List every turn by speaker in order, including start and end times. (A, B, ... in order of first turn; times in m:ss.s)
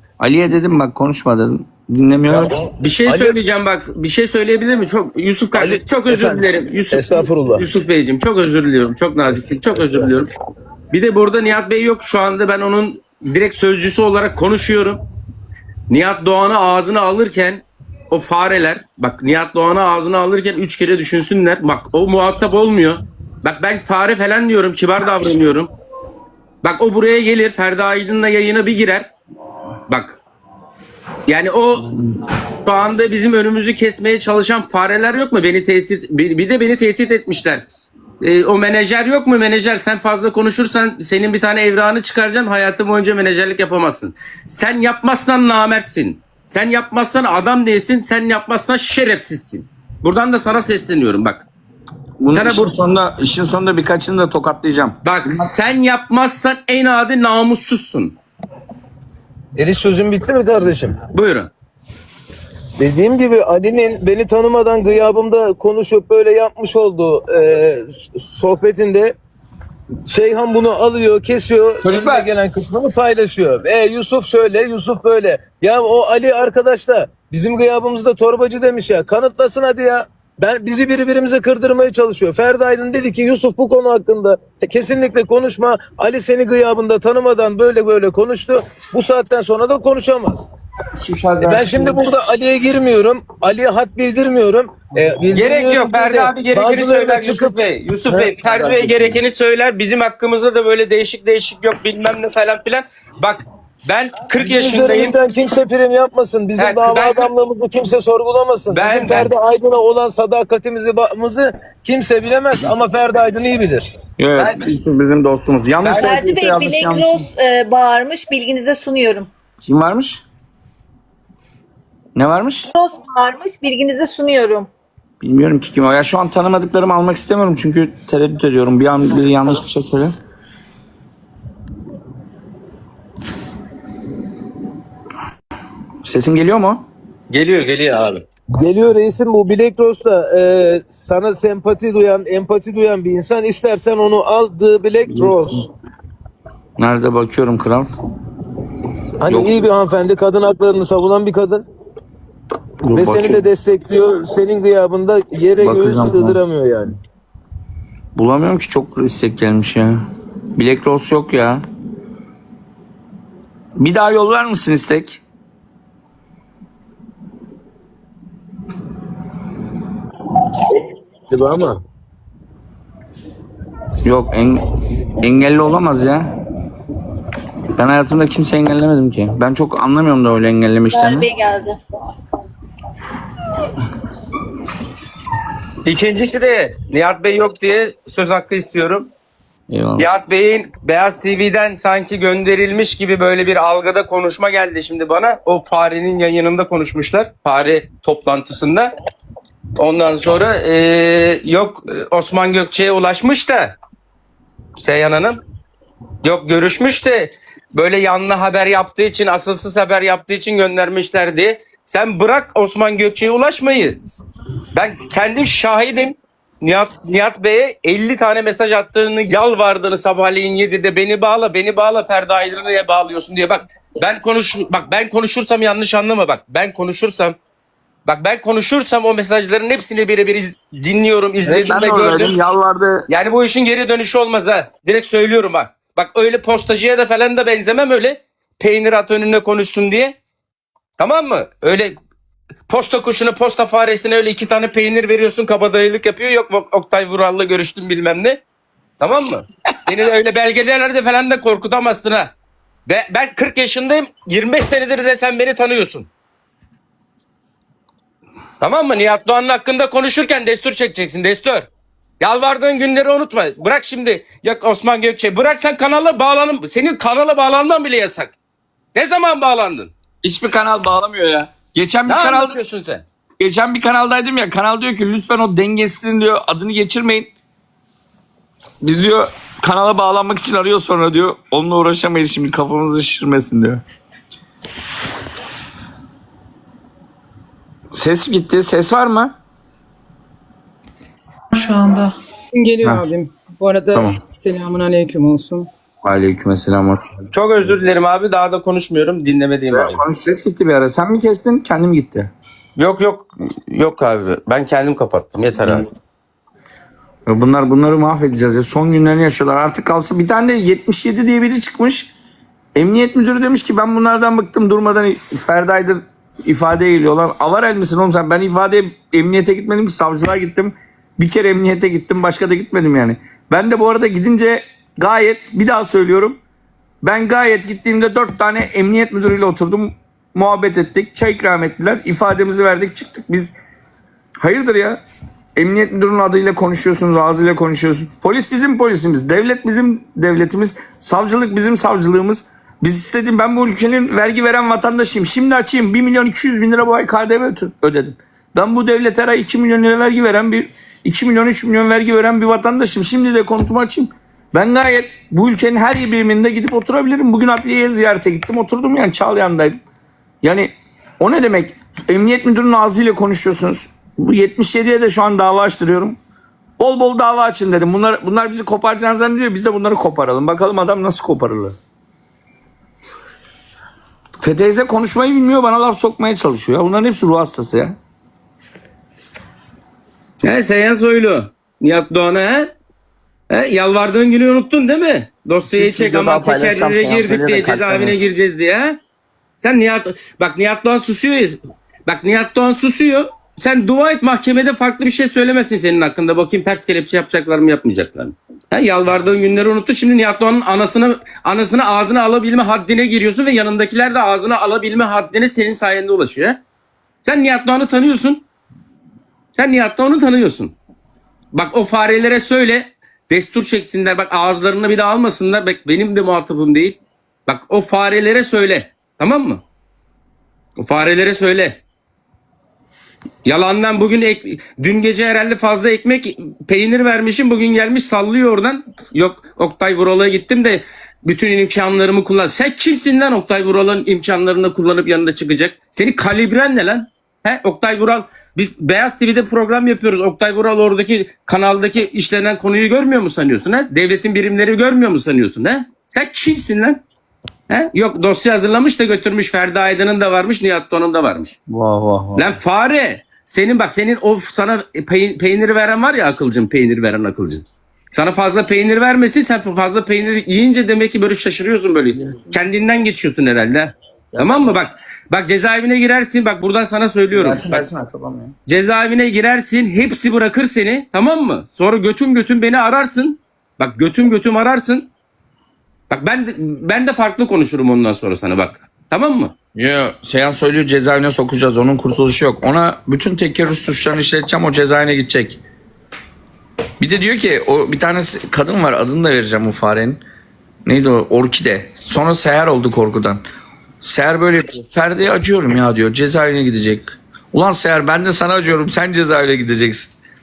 0:00.2-0:02.6 A
0:02.3-0:03.4 B
0:02.8-0:10.3 C
0:05.6-0:07.7 B
0:09.7-0:10.1 B
0:10.9-0:15.0 C
0:15.9-0:25.7 C
0:26.6-0:29.1 C
0:29.9-0:30.2 C
0:31.3-0:31.9 C
0:32.6-0:37.6 C
0:38.2-0:51.5 C
0:52.2-0:55.5 A
0:52.3-0:52.7 C
0:55.0-0:58.2 C
0:59.6-1:01.0 B
1:01.1-1:01.5 C
1:02.8-1:09.2 B
1:10.0-1:30.5 B
1:11.8-1:12.3 A
1:30.9-1:32.0 A
1:31.4-1:38.3 B
1:35.3-1:45.2 C
1:38.5-1:39.1 A
1:44.4-1:53.9 B
1:46.6-1:47.3 C
1:48.7-1:49.3 C
1:54.2-1:57.2 A
1:55.8-1:56.2 C
1:55.9-1:59.3 D
1:59.6-2:00.2 A
2:02.1-2:02.7 A
2:02.7-2:04.7 D
2:05.2-2:10.1 A
2:16.0-2:16.8 A
2:17.3-2:18.2 C
2:18.5-2:25.7 B
2:25.0-2:25.6 A
2:26.8-2:27.9 A
2:29.2-2:31.7 B
2:29.2-2:29.7 A
2:32.8-2:33.5 A
2:32.9-2:37.0 B
2:35.6-2:36.4 A
2:38.2-2:40.0 A
2:40.6-2:41.6 A
2:43.8-2:45.2 A
2:51.3-2:51.8 B
2:54.0-2:54.6 A
2:55.2-2:56.3 A
2:57.8-3:01.3 A
3:00.9-3:01.8 D
3:05.8-3:09.1 C
3:09.7-3:10.1 A
3:10.0-3:18.9 C
3:19.8-3:23.8 C
3:24.8-3:25.4 C
3:26.2-3:34.0 C
3:34.8-3:47.4 C
3:48.1-3:52.4 C
3:51.4-3:53.0 A
3:53.1-4:00.2 C
4:01.0-4:02.0 C
4:02.7-4:08.4 C
4:09.0-4:12.3 C
4:12.9-4:16.1 C
4:18.6-4:21.7 C
4:22.2-4:28.3 C
4:28.9-4:29.9 C
4:30.2-4:32.6 A
4:32.1-4:33.0 C
4:33.4-4:37.3 A
4:38.8-4:43.8 A
4:47.9-4:49.3 A
4:52.5-4:55.7 E
4:52.8-4:53.1 A
4:53.9-4:54.2 A
4:56.0-4:57.0 A
4:57.3-5:00.0 C
4:59.7-5:02.3 A
5:02.8-5:05.8 C
5:07.3-5:12.1 A
5:12.8-5:26.4 A
5:27.0-5:33.6 A
5:34.4-5:35.0 A
5:35.6-5:59.8 A
6:00.4-6:06.2 A
6:06.8-6:11.8 A
6:14.4-6:18.0 A
6:20.4-6:22.7 C
6:23.5-6:29.0 C
6:25.6-6:28.2 A
6:29.6-6:46.6 C
6:47.2-6:48.4 C
6:49.6-6:50.8 C
6:51.5-6:59.6 C
7:00.8-7:01.8 C
7:03.4-7:27.0 C
7:27.7-7:31.6 C
7:31.7-7:32.5 A
7:32.4-7:47.9 C
7:42.1-7:42.5 A
7:44.3-7:44.8 A
7:47.3-7:48.5 A
7:48.7-7:55.1 C
7:56.1-7:59.5 C
7:59.8-8:05.6 A
8:07.0-8:10.2 A
8:10.8-8:13.4 A
8:14.0-8:20.2 A